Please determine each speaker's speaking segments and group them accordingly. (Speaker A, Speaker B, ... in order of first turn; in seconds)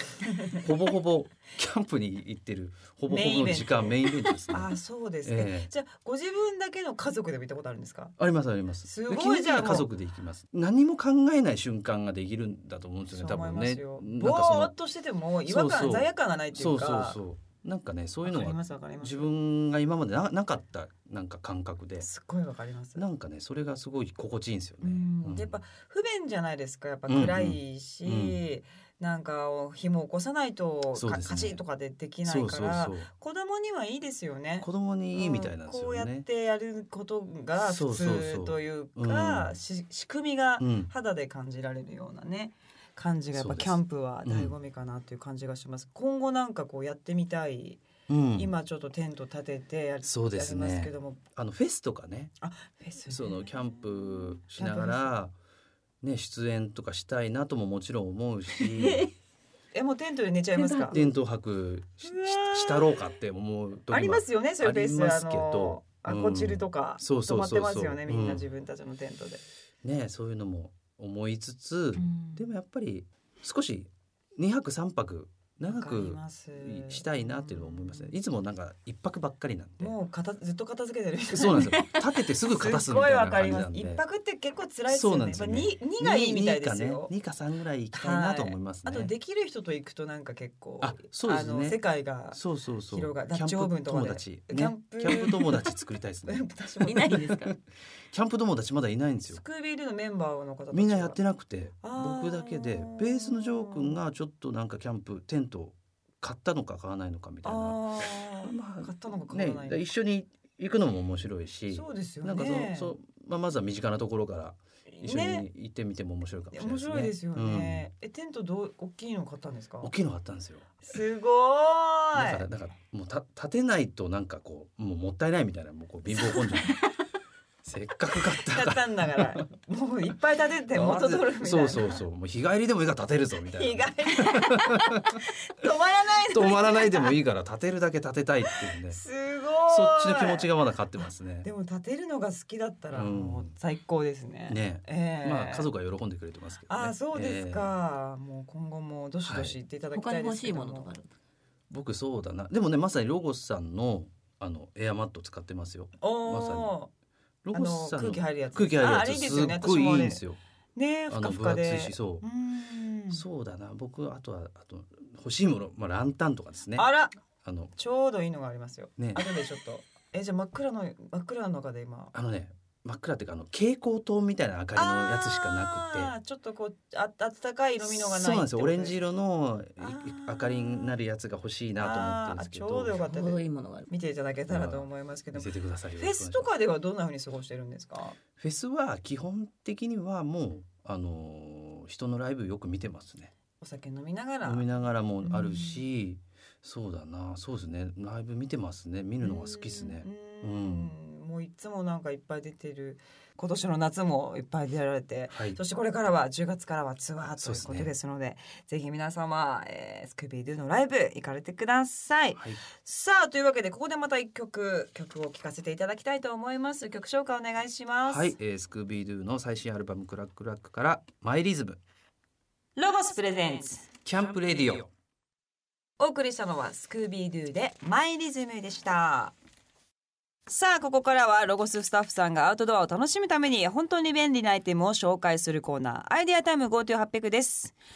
Speaker A: 0.2-0.6, 3.1-8.2, 8.8-9.9, 13.1-17.2, 18.2-19.3, 22.0-23.0, 24.8-47.8, 48.4-51.2, 52.4-53.6, 54.1-55.2, 59.7-61.0, 62.0-63.0, 63.9-69.4, 72.0-72.5, 75.7-78.1, 79.8-87.1, 87.9-95.7, 96.3-97.3, 99.3-101.2, 101.8-104.0, 107.4-109.9, 111.7-112.9, 114.9-115.5, 116.5-119.9, 120.8-122.5, 126.1-126.8, 128.2-132.0, 133.5-137.2, 138.5-140.5, 141.4-145.7, 146.7-150.9, 156.0-156.9, 157.5-160.2, 160.8-163.2, 166.8-167.2, 167.8-172.1, 174.8-179.0, 179.8-180.9, 181.8-188.2, 193.6-194.7, 195.2-195.8, 199.2-218.3, 222.8-223.9, 226.0-229.3, 230.5-237.8
Speaker B: 0.5-5.7, 8.2-14.7, 15.5-22.1, 23.0-25.6, 27.1-28.4, 30.9-31.6, 32.2-33.1, 34.6-36.3, 37.6-39.6, 40.6-40.9, 43.3-44.5, 48.1-48.5, 50.0-52.3, 53.1-55.4, 56.0-59.1, 60.9-68.5, 69.8-80.0, 81.3-84.0, 84.9-89.1, 90.8-96.5, 97.1-97.6, 98.1-99.4, 100.7-107.8, 108.4-117.9, 119.8-120.7, 122.2-126.8, 127.6-129.5, 130.7-135.2, 136.3-139.0, 139.7-141.5, 142.9-143.5, 144.5-147.7, 149.3-149.6, 151.7-156.7, 157.4-160.4, 161.1-162.2, 163.1-166.9, 167.4-167.7, 169.0-169.2, 172.1-176.1, 177.8-183.0, 184.5-186.5, 188.4-193.3, 194.4-200.9, 205.3-205.6, 207.4-207.9, 212.4-212.6, 218.1-221.8, 224.1-224.9
Speaker C: 58.8-59.1, 60.5-61.1, 96.8-97.6, 149.9-151.2, 183.0-183.9